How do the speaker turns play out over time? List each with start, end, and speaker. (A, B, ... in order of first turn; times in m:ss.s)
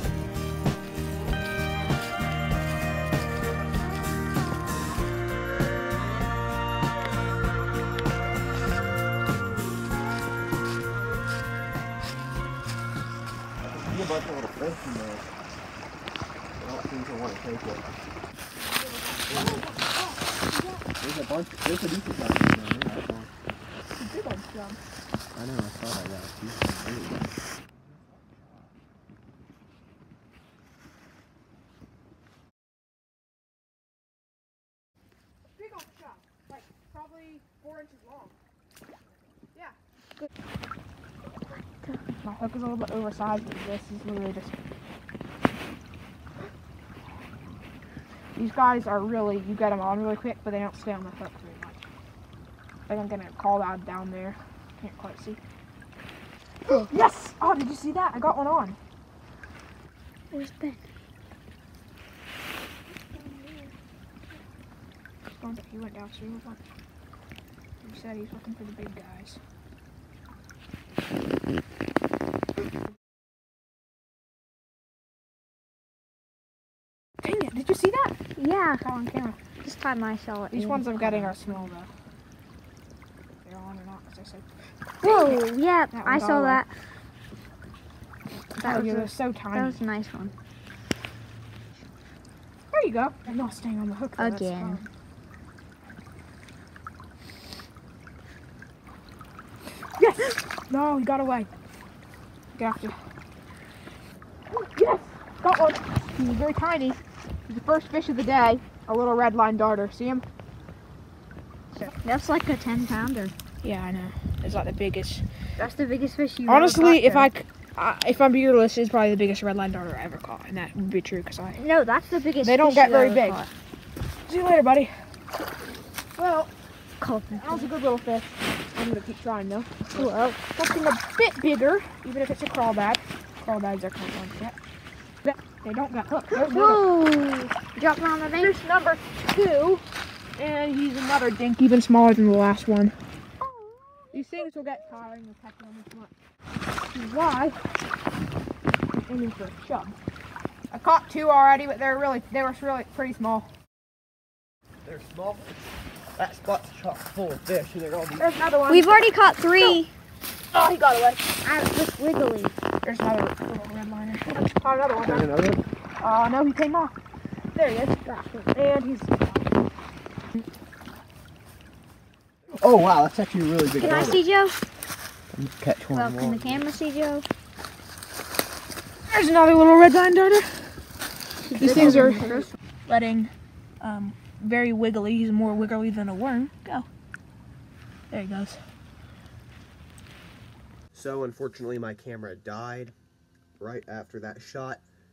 0:13.6-0:15.3 A
0:16.6-0:17.8 A
0:18.6-0:20.8 B
0:19.3-0:19.7 A
0:21.0-0:23.3 A
0:23.9-0:24.8 B
0:25.3-0:28.7 A
0:35.5-0:38.4 B
0:41.8-0:42.1 C
0:42.2-0:44.5 B
0:48.4-0:51.8 B
0:52.9-0:55.4 B
0:56.7-0:58.8 B
1:00.3-1:00.8 C
1:02.9-1:03.7 B
1:05.4-1:06.6 B
1:07.8-1:09.4 B
1:17.2-1:18.1 B
1:18.4-1:18.8 C
1:18.8-1:19.4 B
1:19.6-1:21.7 C
1:20.5-1:21.9 B
1:23.4-1:24.5 B
1:25.0-1:26.6 B
1:25.0-1:26.7 C
1:28.5-1:29.8 B
1:28.6-1:30.3 C
1:32.7-1:34.9 B
1:34.2-1:34.8 C
1:40.0-1:41.5 B
1:42.5-1:42.9 B
1:44.5-1:50.2 B
1:51.8-1:53.3 C
1:53.6-1:55.2 B
1:55.6-1:57.3 C
1:56.5-2:01.6 B
2:01.6-2:03.5 C
2:02.4-2:03.4 B
2:04.3-2:04.9 B
2:06.2-2:06.5 B
2:07.0-2:07.7 C
2:07.3-2:14.6 B
2:09.9-2:10.4 C
2:15.2-2:16.8 B
2:16.3-2:18.5 C
2:18.4-2:19.8 B
2:20.4-2:22.9 B
2:23.4-2:24.2 C
2:24.1-2:26.1 B
2:26.9-2:27.6 B
2:28.9-2:30.0 B
2:30.7-2:33.5 B
2:34.8-2:38.3 A
2:38.2-2:39.8 B
2:38.7-2:39.9 C
2:40.5-2:41.4 B
2:41.4-2:42.5 C
2:42.8-2:45.3 B
2:45.0-2:45.6 A
2:46.0-2:46.9 B
2:47.5-2:49.5 B
2:52.5-2:54.2 A
2:53.8-2:54.6 C
2:55.3-2:56.7 A
2:55.9-2:57.2 C
2:59.1-3:00.5 B
3:01.4-3:02.5 C
3:01.5-3:06.8 B
3:01.7-3:02.0 A
3:08.1-3:08.6 B
3:10.9-3:12.9 A
3:13.6-3:14.8 A